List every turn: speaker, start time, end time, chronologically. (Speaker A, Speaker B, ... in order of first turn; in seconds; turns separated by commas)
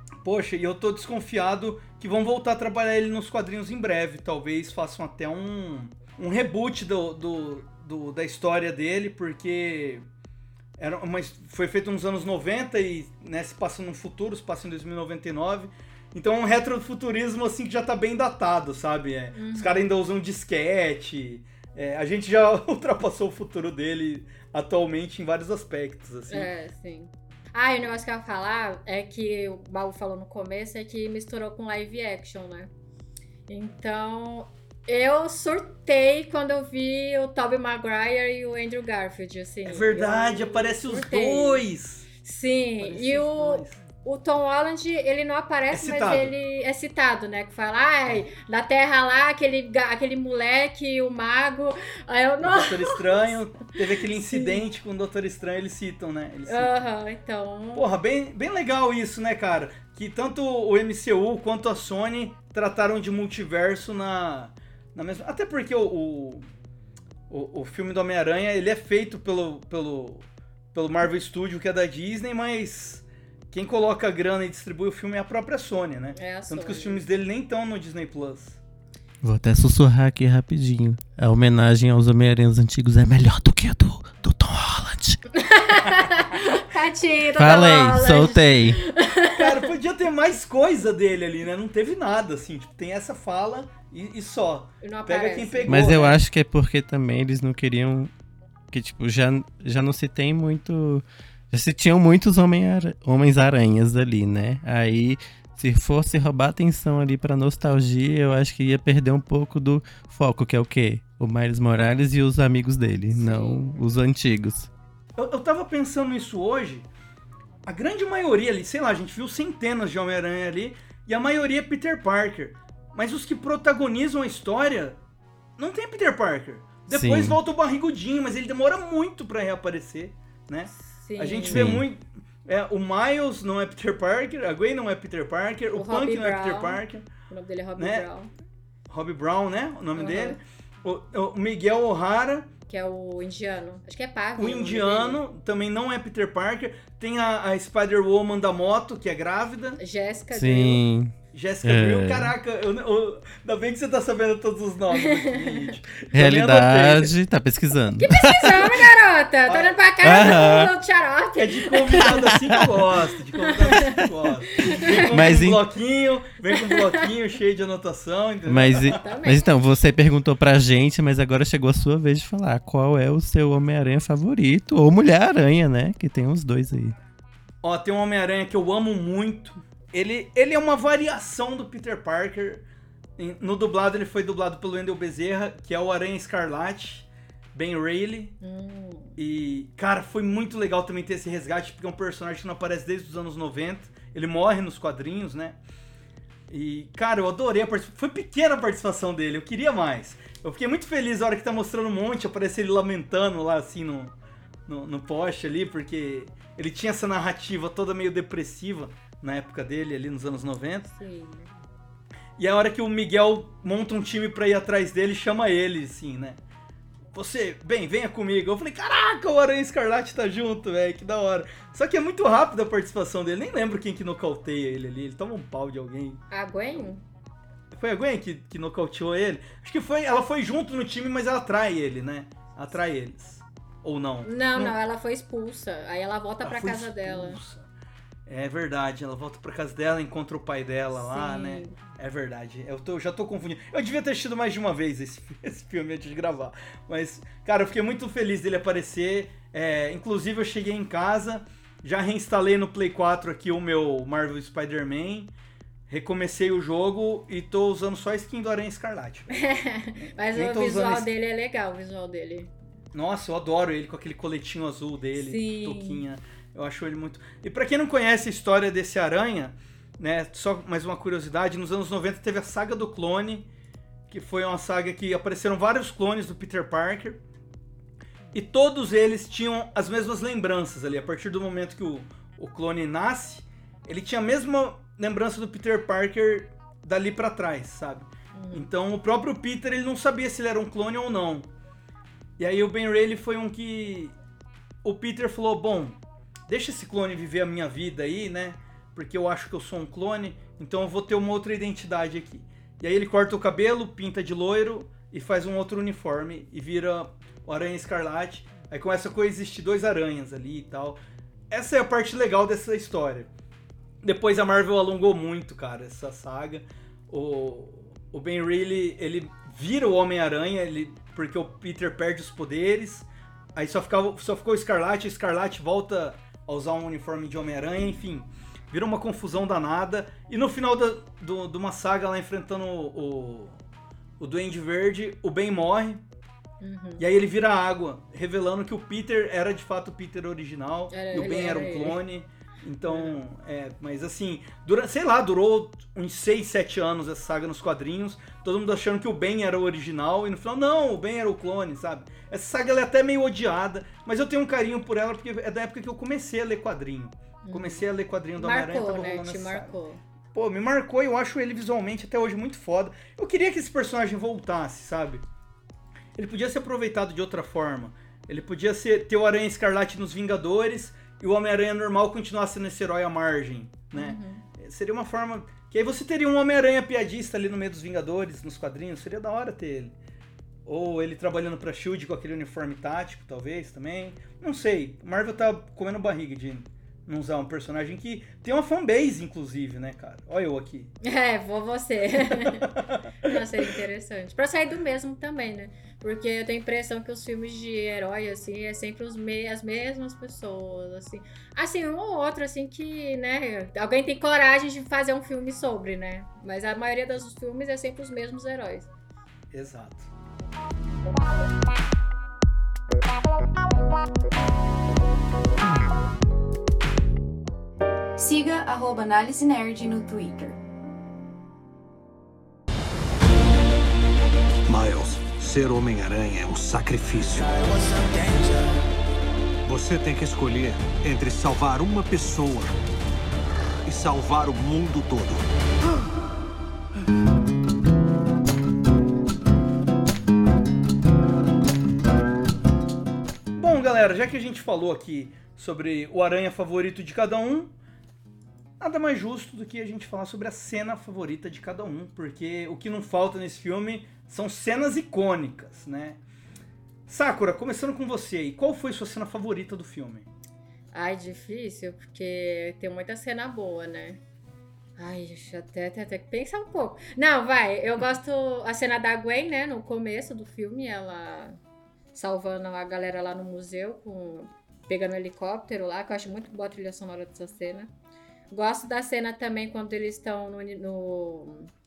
Speaker A: 0.2-10.0, Speaker A: 10.8-26.5, Speaker B: 19.3-19.9, Speaker B: 26.3-32.7, Speaker B: 33.5-41.6, Speaker A: 39.6-42.1, Speaker B: 42.2-53.4, Speaker A: 42.8-43.8, Speaker A: 45.7-46.3, Speaker A: 52.4-56.7, Speaker B: 54.1-54.6, Speaker B: 56.5-57.9, Speaker A: 57.7-66.5, Speaker A: 67.3-78.6, Speaker B: 76.2-77.0, Speaker C: 79.2-85.2, Speaker B: 85.3-89.7, Speaker C: 87.3-88.8, Speaker A: 89.3-96.2, Speaker B: 94.8-96.0, Speaker C: 95.7-98.1, Speaker C: 98.7-114.7, Speaker B: 113.1-113.8, Speaker A: 115.2-116.9, Speaker A: 117.7-125.0, Speaker A: 125.6-137.1, Speaker C: 126.9-127.4, Speaker B: 130.9-131.8, Speaker C: 131.5-131.8, Speaker B: 135.7-138.3, Speaker A: 137.8-138.1, Speaker A: 138.9-142.5, Speaker B: 139.9-140.4, Speaker B: 142.7-145.2, Speaker A: 144.4-149.8, Speaker B: 149.8-150.8, Speaker C: 150.3-151.1, Speaker A: 151.3-157.1, Speaker C: 151.6-152.3, Speaker B: 154.9-155.7, Speaker C: 156.1-158.8, Speaker B: 158.0-162.4, Speaker A: 159.5-159.8, Speaker C: 160.0-160.7, Speaker A: 161.3-169.0, Speaker B: 163.3-165.0, Speaker C: 164.7-165.6, Speaker B: 166.5-167.1, Speaker C: 168.5-176.9, Speaker B: 168.8-169.4, Speaker A: 177.6-182.6, Speaker A: 183.2-188.4, Speaker B: 188.4-189.1, Speaker A: 189.2-195.6, Speaker A: 196.5-204.1, Speaker A: 204.7-210.9, Speaker B: 210.9-211.5, Speaker A: 212.4-216.4, Speaker A: 217.1-226.2, Speaker B: 226.3-227.0, Speaker A: 227.7-234.8, Speaker B: 234.2-237.4, Speaker A: 236.4-237.6, Speaker A: 238.3-255.3, Speaker B: 240.9-241.8, Speaker A: 255.9-259.4, Speaker B: 259.3-262.5, Speaker A: 260.0-261.1, Speaker A: 262.9-273.5, Speaker B: 265.1-266.1, Speaker A: 274.1-277.2, Speaker A: 278.3-291.5, Speaker B: 288.3-288.7, Speaker A: 292.4-294.1, Speaker A: 294.8-311.0, Speaker A: 311.5-313.3, Speaker A: 314.0-333.6, Speaker A: 334.2-336.0, Speaker B: 336.6-337.0, Speaker A: 337.0-359.7, Speaker B: 340.9-342.0, Speaker B: 342.9-343.2, Speaker B: 357.4-357.8, Speaker B: 358.4-360.0, Speaker A: 360.3-365.2, Speaker A: 366.2-379.9, Speaker B: 373.9-374.4, Speaker A: 380.6-390.9, Speaker B: 391.0-392.7, Speaker A: 392.6-393.3, Speaker B: 393.2-408.9, Speaker A: 409.5-410.1, Speaker D: 418.2-420.6, Speaker E: 424.7-427.7, Speaker E: 429.6-432.8, Speaker E: 433.9-435.5, Speaker A: 443.6-447.7, Speaker A: 448.8-456.2, Speaker A: 457.1-460.3, Speaker B: 460.9-464.2, Speaker B: 465.0-471.6, Speaker B: 472.1-477.9, Speaker B: 478.5-481.7